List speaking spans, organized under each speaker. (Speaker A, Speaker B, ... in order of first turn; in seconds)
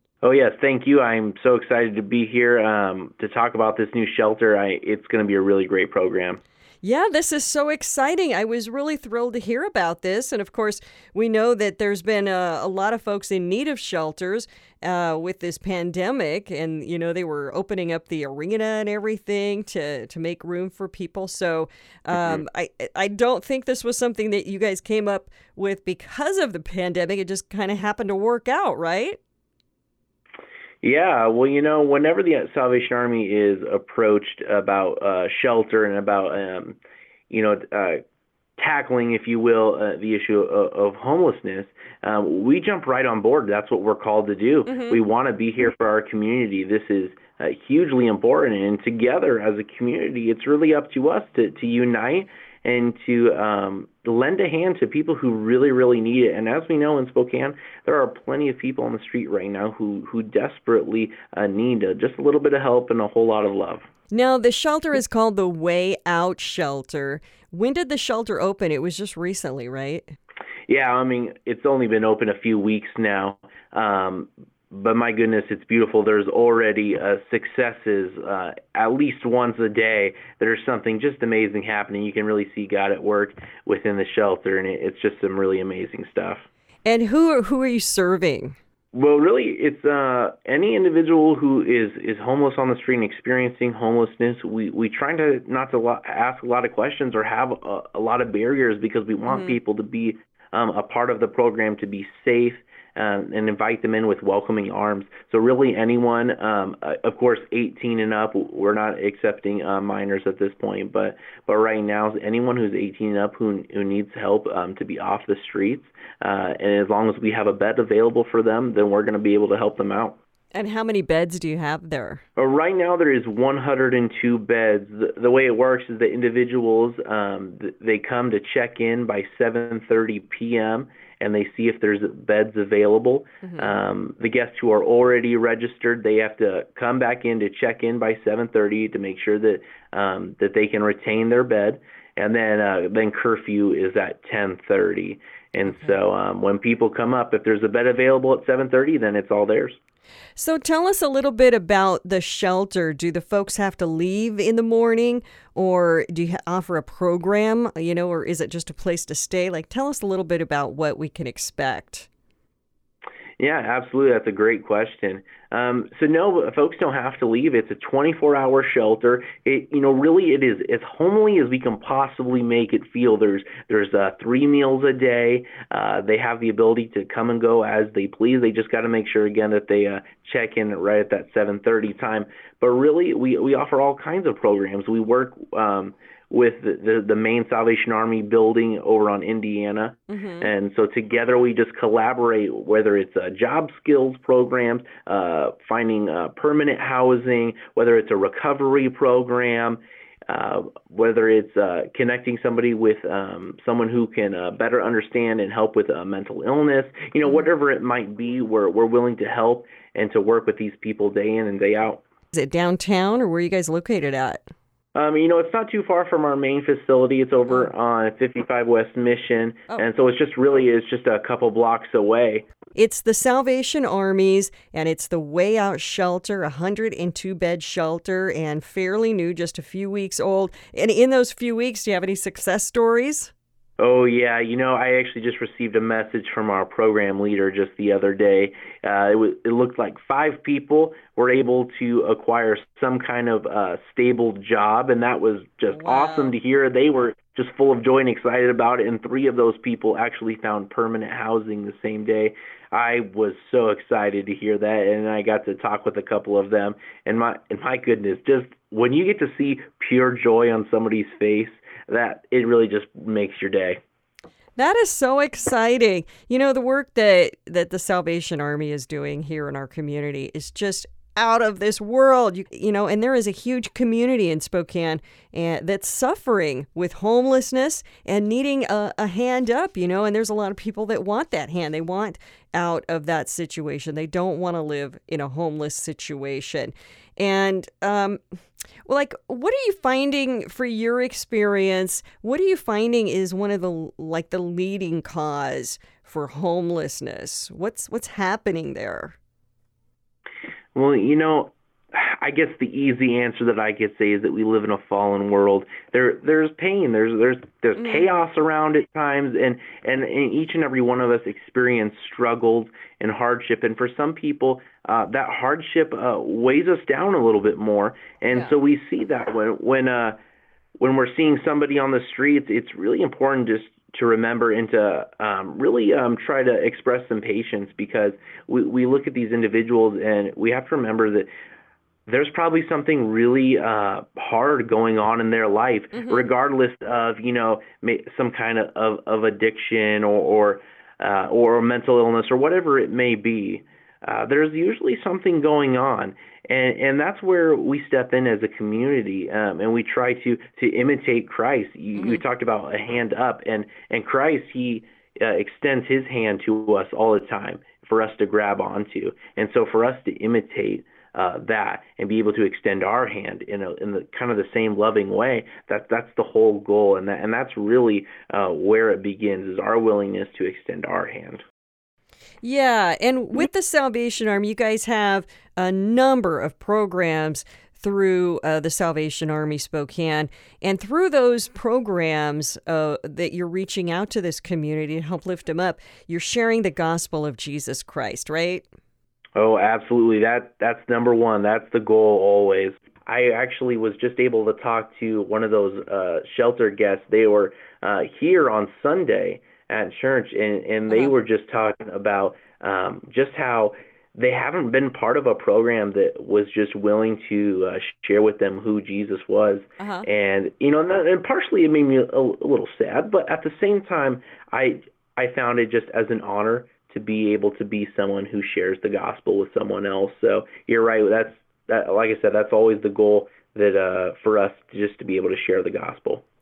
Speaker A: 0.2-6.4, 22.1-22.4, 30.8-36.8, 37.3-38.0, 38.6-63.9, 70.7-86.4, 88.9-120.2, 122.4-149.8, 163.4-212.0, 214.9-222.4, 233.8-263.8, 300.7-320.2, 320.8-331.3, 332.1-371.4, 389.4-426.2
Speaker B: 6.8-29.2, 44.7-45.0, 64.1-70.1, 86.8-88.5, 99.3-99.6, 120.5-122.2, 133.4-133.7, 145.7-146.0, 150.3-162.1, 190.1-190.5, 212.3-214.5, 222.8-233.3, 245.7-246.3, 264.6-288.2, 288.9-299.1, 307.8-308.0, 335.9-336.2, 351.9-352.2, 372.4-388.6, 409.8-410.1